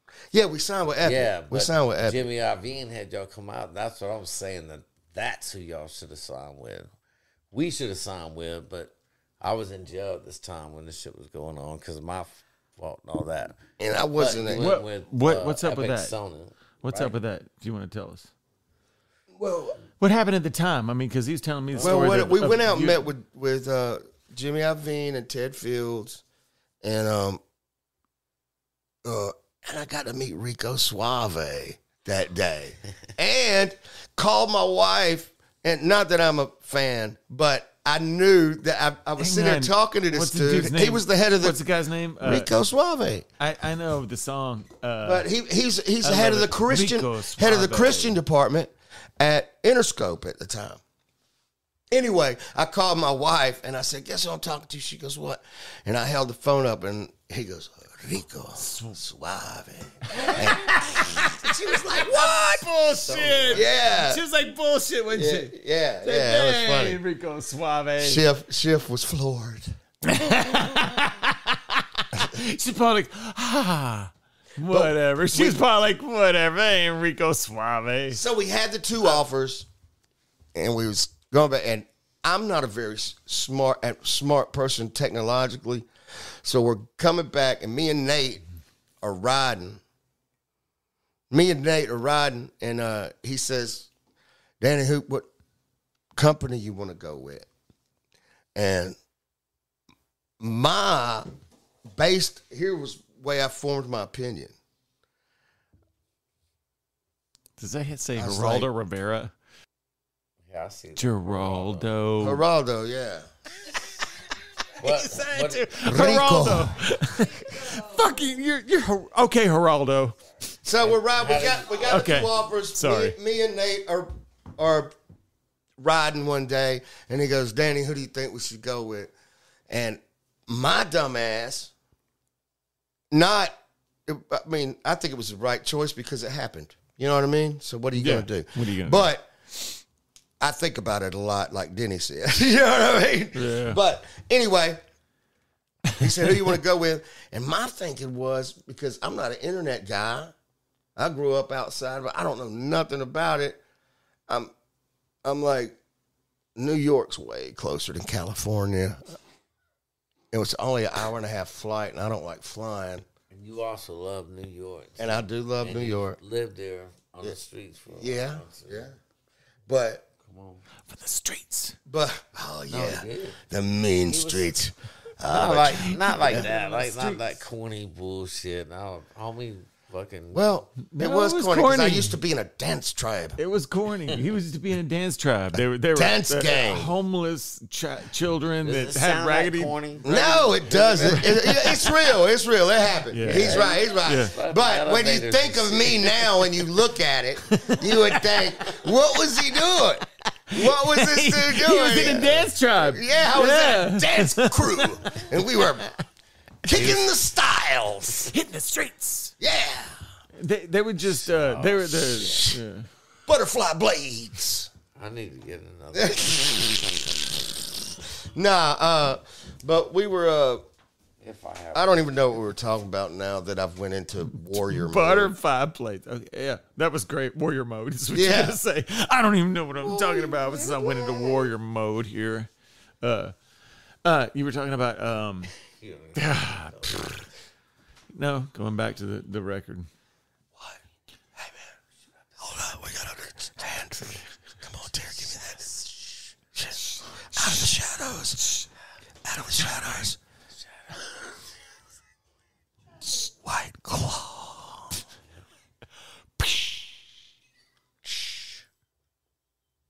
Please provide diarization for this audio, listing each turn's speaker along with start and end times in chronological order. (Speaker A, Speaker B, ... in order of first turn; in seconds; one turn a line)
Speaker A: 0.3-2.2
Speaker B: 1.0-6.9
Speaker B: 7.5-13.6
Speaker A: 13.8-14.8
Speaker B: 14.2-17.1
Speaker C: 14.6-16.1
Speaker C: 16.8-18.3
Speaker A: 19.4-19.8
Speaker C: 20.0-23.0
Speaker B: 21.8-22.0
Speaker A: 21.8-26.2
Speaker A: 26.8-27.4
Speaker A: 29.0-41.6
Speaker C: 39.2-42.5
Speaker A: 42.2-43.3
Speaker C: 43.4-45.3
Speaker A: 45.0-50.8
Speaker C: 46.0-48.2
Speaker A: 51.9-62.6
Speaker C: 58.6-59.0
Speaker C: 60.1-68.3
Speaker B: 63.0-63.7
Speaker A: 63.5-64.2
Speaker A: 65.1-67.0
Speaker A: 68.0-69.8
Speaker C: 70.0-78.2
Speaker A: 74.7-75.6
Speaker A: 78.1-79.7
Speaker A: 80.5-85.9
Speaker A: 86.4-88.4
Speaker A: 89.0-89.8
Speaker A: 91.3-93.9
Speaker A: 94.6-95.3
Speaker A: 96.2-97.5
Speaker A: 98.5-99.0
Speaker A: 100.4-101.3
Speaker A: 102.0-104.5
Speaker C: 107.6-109.3
Speaker A: 108.2-108.7
Speaker B: 110.5-111.9
Speaker C: 111.0-112.4
Speaker A: 112.2-113.3
Speaker C: 114.8-120.2
Speaker B: 114.8-116.0
Speaker A: 115.9-116.8
Speaker A: 120.6-124.9
Speaker B: 120.8-122.1
Speaker C: 121.9-123.2
Speaker A: 125.8-129.1
Speaker A: 129.7-131.7
Speaker A: 133.1-139.3
Speaker C: 138.0-139.1
Speaker A: 140.4-144.8
Speaker C: 143.3-143.8
Speaker A: 146.0-150.3
Speaker A: 151.0-153.6
Speaker A: 155.2-155.8
Speaker A: 156.6-159.0
Speaker A: 160.3-163.1
Speaker B: 163.3-168.9
Speaker A: 165.0-166.2
Speaker A: 167.9-168.9
Speaker A: 169.7-170.1
Speaker B: 170.2-170.7
Speaker C: 170.8-171.8
Speaker A: 171.9-176.4
Speaker B: 172.7-173.4
Speaker B: 174.1-174.6
Speaker B: 175.3-180.5
Speaker C: 175.9-177.4
Speaker A: 180.3-183.4
Speaker C: 180.9-182.2
Speaker C: 183.4-189.8
Speaker A: 185.5-186.9
Speaker B: 188.6-191.6
Speaker A: 190.0-205.9
Speaker C: 191.0-191.9
Speaker C: 193.1-194.3
Speaker B: 193.3-196.3
Speaker C: 197.5-198.5
Speaker C: 200.5-205.8
Speaker A: 206.6-208.3
Speaker C: 206.7-207.0
Speaker C: 208.3-209.3
Speaker A: 209.4-210.0
Speaker C: 210.4-212.9
Speaker B: 211.2-212.5
Speaker A: 213.3-214.7
Speaker B: 214.9-216.7
Speaker A: 215.9-216.9
Speaker A: 218.3-220.6
Speaker B: 221.2-222.4
Speaker A: 221.7-225.3
Speaker C: 224.6-232.5
Speaker A: 228.1-228.6
Speaker A: 230.0-231.2
Speaker C: 233.0-233.3
Speaker C: 234.1-235.5
Speaker B: 235.7-237.2
Speaker C: 236.2-237.3
Speaker C: 238.1-239.9
Speaker A: 241.4-241.7
Speaker A: 242.4-245.6
Speaker A: 246.6-248.5
Speaker A: 249.2-250.2
Speaker B: 250.6-250.9
Speaker A: 253.1-255.0
Speaker C: 256.4-256.8